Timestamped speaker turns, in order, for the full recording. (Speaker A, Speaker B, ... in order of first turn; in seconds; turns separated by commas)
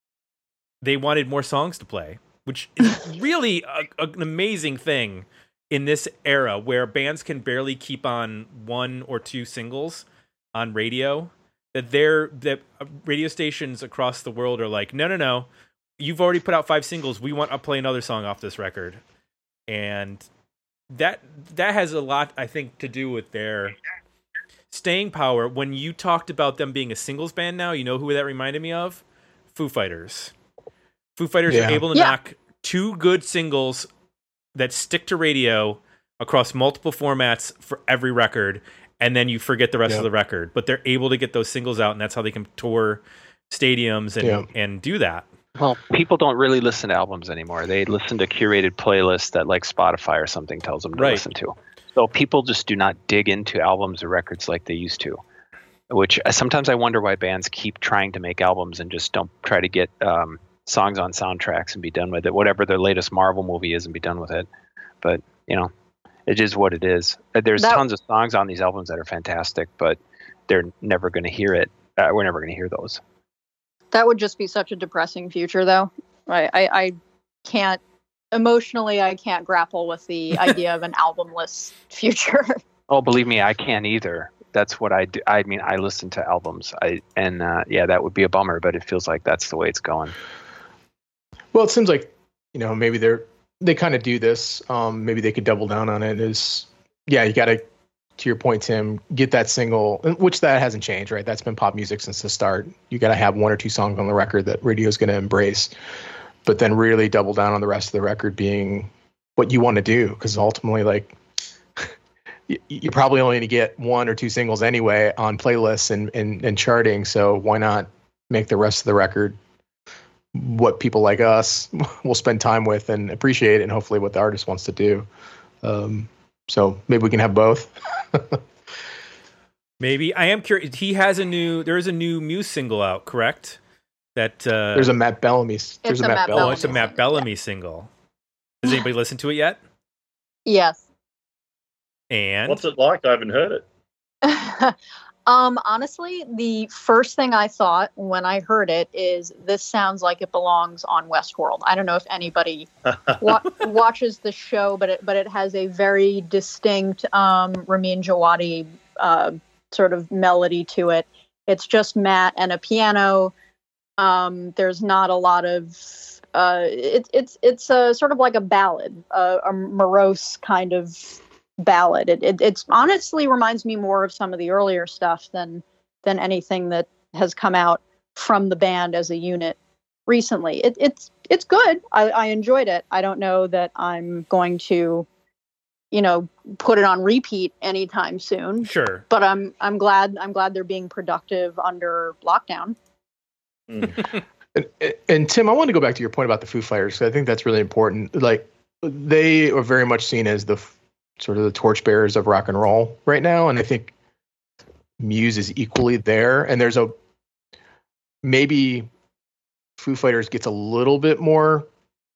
Speaker A: 0.8-15.5, Speaker A: 16.0-19.0, Speaker A: 19.7-20.3, Speaker A: 20.9-23.8, Speaker A: 24.7-29.0, Speaker A: 29.5-30.3, Speaker A: 31.2-33.9, Speaker B: 31.5-31.8, Speaker A: 34.5-45.3, Speaker B: 44.2-44.5, Speaker C: 45.5-55.2, Speaker A: 51.0-51.2, Speaker C: 55.9-64.5, Speaker C: 65.0-65.7, Speaker C: 66.3-73.0, Speaker D: 67.6-67.8, Speaker D: 73.9-77.8, Speaker D: 78.3-82.6, Speaker C: 82.9-90.1, Speaker B: 91.5-97.6, Speaker B: 98.2-105.7, Speaker B: 106.4-111.2, Speaker B: 112.5-119.4, Speaker B: 120.3-125.1, Speaker B: 125.6-128.4, Speaker A: 129.8-133.6, Speaker A: 134.2-134.9, Speaker B: 134.7-136.8, Speaker D: 135.8-137.2, Speaker A: 136.3-137.9, Speaker A: 138.6-139.6, Speaker D: 140.4-140.8, Speaker A: 142.1-142.6, Speaker E: 142.5-143.7, Speaker D: 144.2-144.7, Speaker D: 145.3-152.7, Speaker E: 152.9-153.4, Speaker D: 153.2-163.3, Speaker D: 164.0-185.1, Speaker D: 185.9-192.8, Speaker A: 188.6-189.0, Speaker E: 193.7-194.1, Speaker B: 194.5-203.9, Speaker B: 205.0-206.9, Speaker B: 208.2-208.9, Speaker B: 209.8-211.7